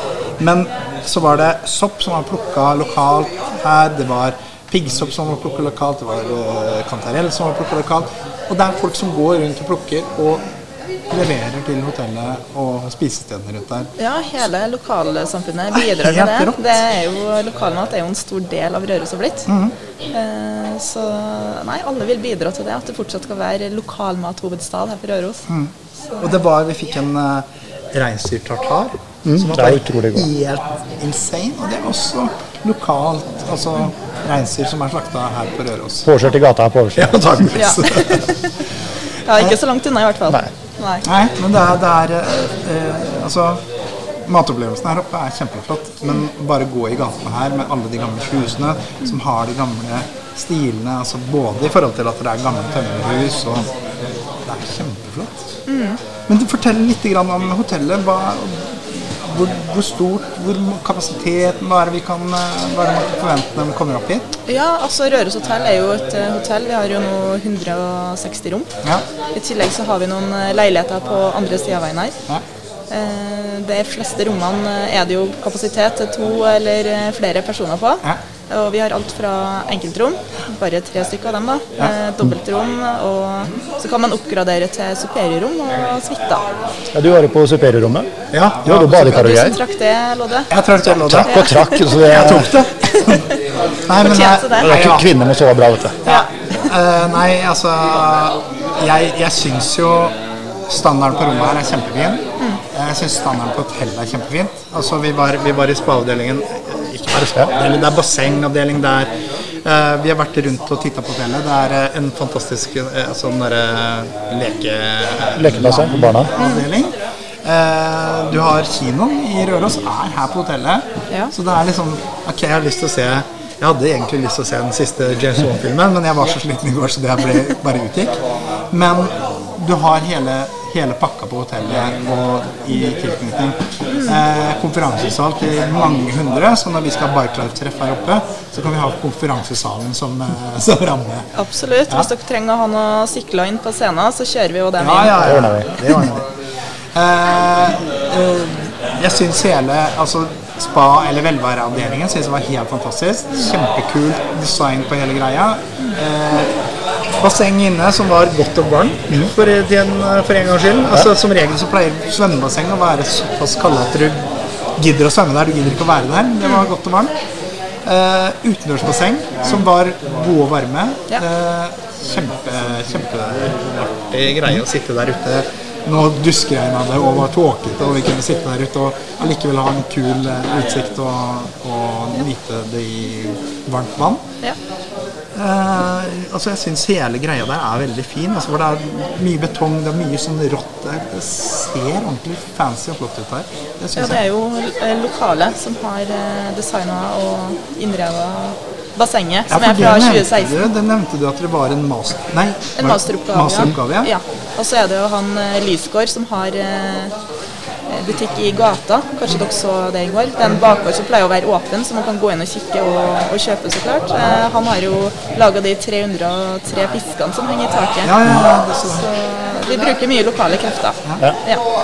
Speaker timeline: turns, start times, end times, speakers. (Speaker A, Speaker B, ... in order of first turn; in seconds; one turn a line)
Speaker A: 0.4-10.4
Speaker A: 11.1-13.9
Speaker B: 14.0-19.5
Speaker A: 15.7-16.8
Speaker A: 19.5-19.7
Speaker B: 20.1-25.4
Speaker A: 25.5-36.1
Speaker C: 29.2-30.3
Speaker C: 36.0-37.4
Speaker A: 37.0-38.4
Speaker B: 37.5-38.6
Speaker B: 39.2-41.0
Speaker A: 39.3-39.6
Speaker A: 41.0-43.6
Speaker A: 44.2-53.7
Speaker A: 54.4-55.5
Speaker B: 55.7-56.0
Speaker A: 56.2-64.3
Speaker B: 64.5-68.7
Speaker B: 69.3-72.2
Speaker B: 72.9-86.5
Speaker C: 86.9-88.1
Speaker A: 88.3-89.2
Speaker C: 88.6-89.6
Speaker B: 89.0-90.5
Speaker A: 90.5-93.3
Speaker C: 90.8-92.5
Speaker B: 91.2-91.9
Speaker B: 92.8-93.4
Speaker A: 93.9-95.1
Speaker B: 94.0-94.7
Speaker C: 94.6-96.0
Speaker A: 96.0-100.2
Speaker B: 96.0-96.7
Speaker A: 100.7-109.1
Speaker A: 109.6-128.2
Speaker C: 115.4-116.3
Speaker B: 116.4-116.7
Speaker A: 128.7-141.3
Speaker B: 133.9-134.2
Speaker B: 141.3-145.4
Speaker A: 144.8-146.2
Speaker C: 145.2-146.1
Speaker A: 146.9-156.5
Speaker A: 157.1-167.2
Speaker A: 167.8-184.2
Speaker A: 185.3-194.2
Speaker B: 193.9-200.7
Speaker A: 199.5-204.1
Speaker B: 202.8-207.1
Speaker B: 207.9-218.4
Speaker A: 218.0-219.1
Speaker B: 218.9-221.6